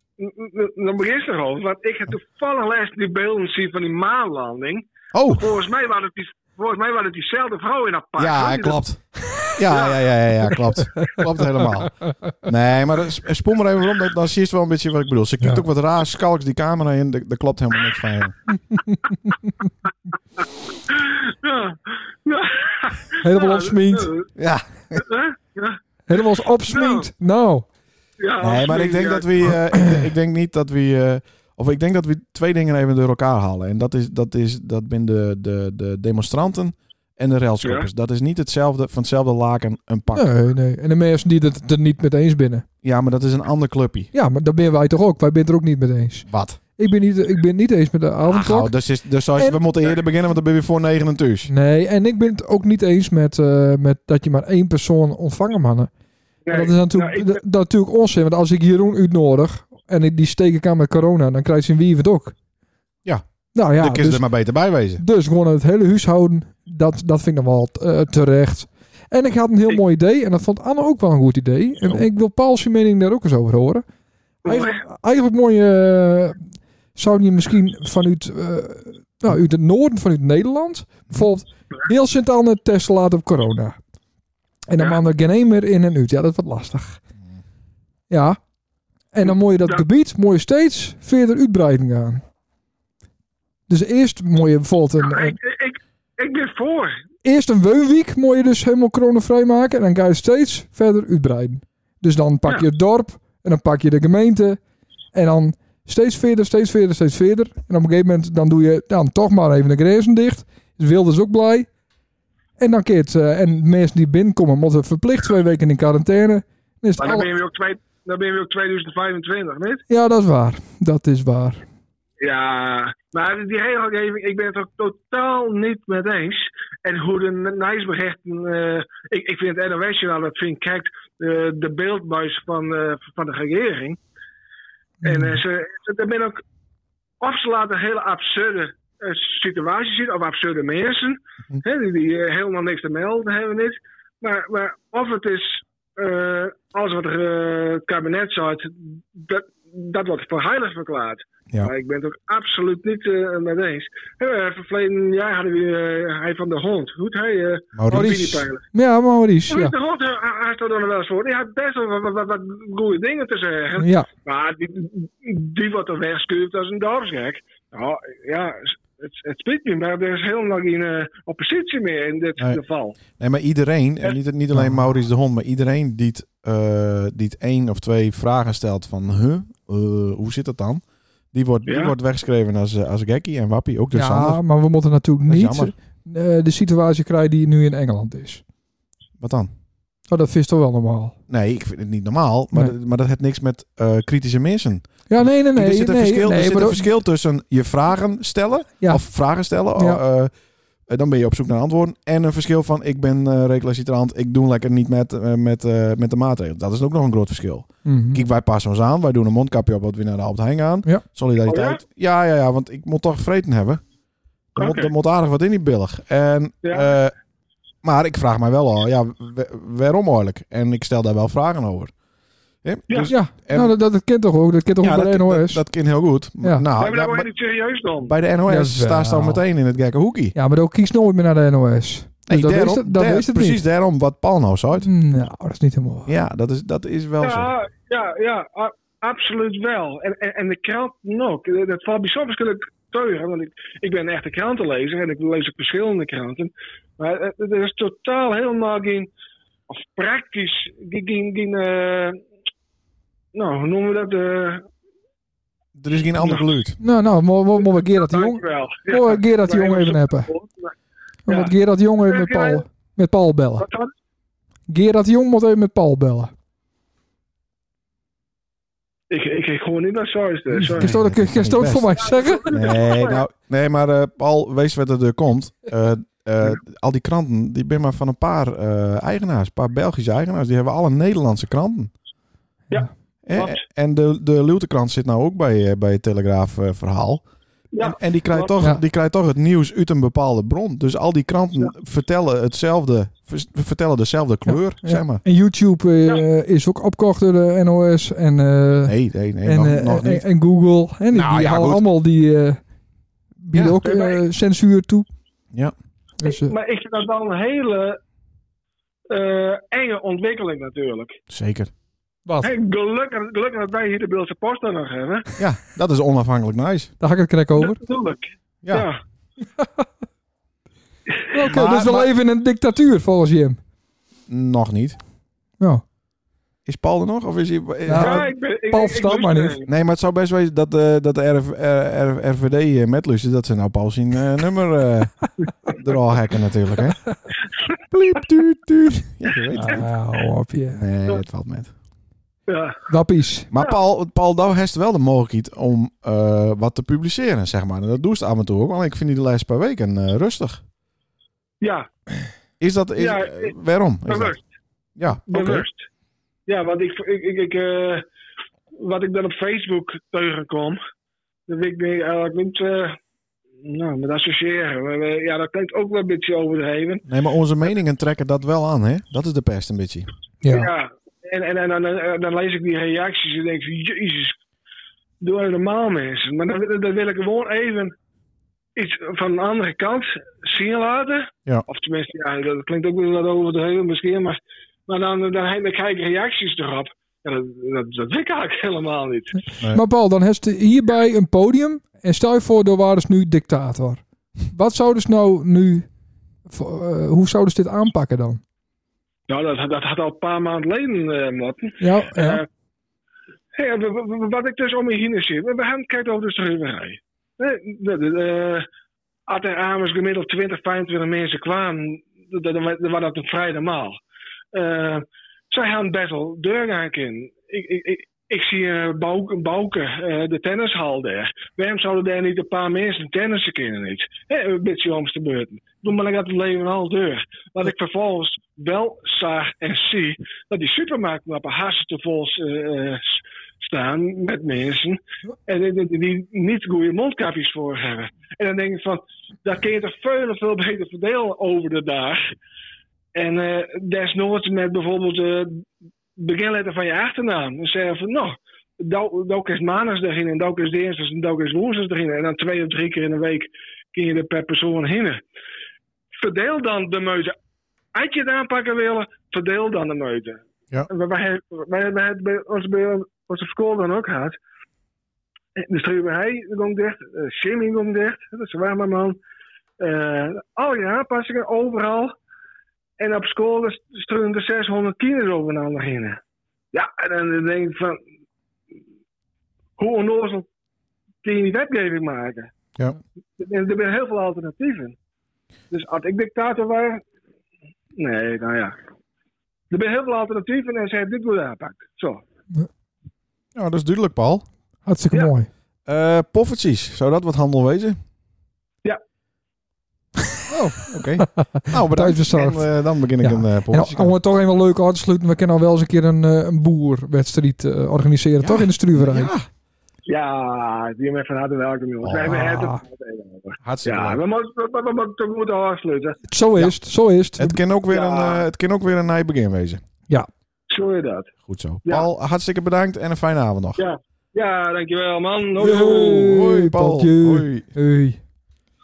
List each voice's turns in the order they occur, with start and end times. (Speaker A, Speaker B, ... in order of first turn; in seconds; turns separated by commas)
Speaker A: 0.2-8.8, Speaker B: 5.1-5.5, Speaker B: 8.2-18.4, Speaker A: 9.7-10.0, Speaker C: 18.7-19.5, Speaker A: 20.9-24.3, Speaker C: 23.2-24.1, Speaker B: 24.4-25.0, Speaker A: 24.9-27.1, Speaker C: 26.1-27.7, Speaker A: 28.2-29.6, Speaker B: 28.4-40.3, Speaker A: 37.6-37.9, Speaker C: 40.1-42.6, Speaker B: 42.8-44.1, Speaker C: 44.1-48.7, Speaker B: 46.3-46.6, Speaker B: 48.3-51.5, Speaker C: 51.5-55.9, Speaker A: 56.5-57.4, Speaker C: 56.5-62.4, Speaker C: 63.5-64.3, Speaker B: 63.8-65.0, Speaker C: 65.0-73.8, Speaker C: 74.4-83.8, Speaker A: 74.5-74.8, Speaker C: 84.7-87.0, Speaker C: 88.1-88.4, Speaker C: 89.1-92.2, Speaker A: 89.3-89.8, Speaker C: 93.7-95.4, Speaker A: 95.0-97.0, Speaker C: 97.2-104.6, Speaker C: 105.1-111.7, Speaker C: 112.6-117.3, Speaker A: 117.0-119.8, Speaker C: 119.9-121.6, Speaker A: 122.2-134.0, Speaker C: 135.0-135.4, Speaker A: 135.0-136.4, Speaker A: 137.2-158.6, Speaker B: 157.8-158.3, Speaker C: 157.9-159.7, Speaker A: 159.5-173.0, Speaker C: 163.8-164.1, Speaker B: 173.2-184.4, Speaker C: 174.5-174.8, Speaker A: 181.7-181.9, Speaker C: 183.9-188.4, Speaker B: 185.3-185.7, Speaker B: 189.2-189.5, Speaker C: 190.1-191.2, Speaker B: 191.3-200.3, Speaker C: 195.1-196.9, Speaker B: 200.9-213.8, Speaker C: 207.8-208.2, Speaker A: 211.5-211.8, Speaker B: 214.6-217.1, Speaker A: 214.6-214.9, Speaker A: 216.6-216.9, Speaker B: 217.8-221.9, Speaker B: 222.6-223.8, Speaker A: 222.9-223.1, Speaker C: 223.1-225.6, Speaker B: 224.8-227.3, Speaker A: 226.8-228.2, Speaker B: 228.0-230.3, Speaker C: 228.5-229.4, Speaker C: 230.3-233.6, Speaker B: 232.3-234.9, Speaker C: 234.8-236.1, Speaker B: 236.1-237.5, Speaker A: 237.2-249.1, Speaker A: 249.7-252.2, Speaker A: 253.3-254.7, Speaker B: 255.8-256.8, Speaker A: 256.2-256.4, Speaker C: 256.8-260.3, Speaker A: 257.6-260.8, Speaker C: 261.3-263.7, Speaker A: 261.3-261.5, Speaker A: 262.1-262.6, Speaker A: 263.6-263.9, Speaker C: 264.7-266.3, Speaker A: 269.1-271.0, Speaker C: 270.5-272.6, Speaker B: 270.8-281.9, Speaker A: 272.1-273.2, Speaker A: 282.7-283.6, Speaker B: 283.2-287.2, Speaker A: 287.7-288.6, Speaker B: 287.8-295.2, Speaker C: 294.5-302.6, Speaker B: 298.9-300.2, Speaker B: 301.1-301.9, Speaker C: 303.4-305.1, Speaker B: 303.5-303.8, Speaker A: 303.8-304.2, Speaker C: 306.2-306.6, Speaker A: 306.2-308.0, Speaker A: 309.1-311.2, Speaker B: 311.3-311.7, Speaker C: 312.3-312.5, Speaker A: 312.4-315.3, Speaker B: 315.4-316.9, Speaker C: 317.0-317.8, Speaker A: 317.6-319.0, Speaker B: 318.6-318.9, Speaker C: 319.6-319.8, Speaker C: 321.3-323.6, Speaker B: 321.5-322.1, Speaker B: 324.3-325.0, Speaker B: 326.6-328.3, Speaker C: 327.9-329.6, Speaker A: 327.9-329.7, Speaker B: 329.7-337.0, Speaker B: 337.9-339.9, Speaker C: 339.6-340.8, Speaker B: 340.7-341.7, Speaker A: 342.5-342.8, Speaker C: 342.9-343.5, Speaker B: 343.5-350.6, Speaker A: 351.6-351.9, Speaker B: 352.6-354.4, Speaker A: 353.0-353.5, Speaker A: 354.1-354.4, Speaker B: 355.0-355.7, Speaker A: 355.3-355.9, Speaker A: 356.5-358.1, Speaker A: 358.8-360.8, Speaker A: 361.5-363.0, Speaker A: 363.6-367.1, Speaker B: 367.1-370.1, Speaker C: 370.4-370.7, Speaker A: 370.5-374.4, Speaker A: 375.2-377.9, Speaker A: 378.8-389.4, Speaker C: 389.7-395.9, Speaker C: 396.5-398.4, Speaker A: 399.3-402.5, Speaker C: 401.8-402.4, Speaker A: 403.5-408.7, Speaker A: 409.3-414.0, Speaker A: 414.5-442.2, Speaker A: 443.1-445.6, Speaker A: 446.2-455.2, Speaker A: 456.2-457.4, Speaker A: 457.9-464.4, Speaker A: 465.6-469.2, Speaker A: 469.8-472.1, Speaker A: 473.0-476.2, Speaker A: 476.7-478.0, Speaker A: 479.8-480.5, Speaker A: 481.2-482.5, Speaker A: 483.4-485.0, Speaker A: 485.7-487.0, Speaker A: 488.0-488.8, Speaker A: 489.7-492.2, Speaker B: 493.6-494.5, Speaker C: 494.9-495.5, Speaker B: 495.9-498.0, Speaker B: 500.5-504.1, Speaker C: 501.3-502.7, Speaker C: 503.2-509.3, Speaker B: 508.4-509.5, Speaker A: 510.1-516.2, Speaker B: 512.0-512.4, Speaker C: 512.2-512.8, Speaker B: 513.6-514.2, Speaker C: 516.3-517.6, Speaker B: 517.4-519.8, Speaker A: 517.9-518.4, Speaker A: 520.7-521.3, Speaker B: 521.5-523.9, Speaker A: 523.8-526.3, Speaker C: 525.6-528.2, Speaker B: 526.0-527.7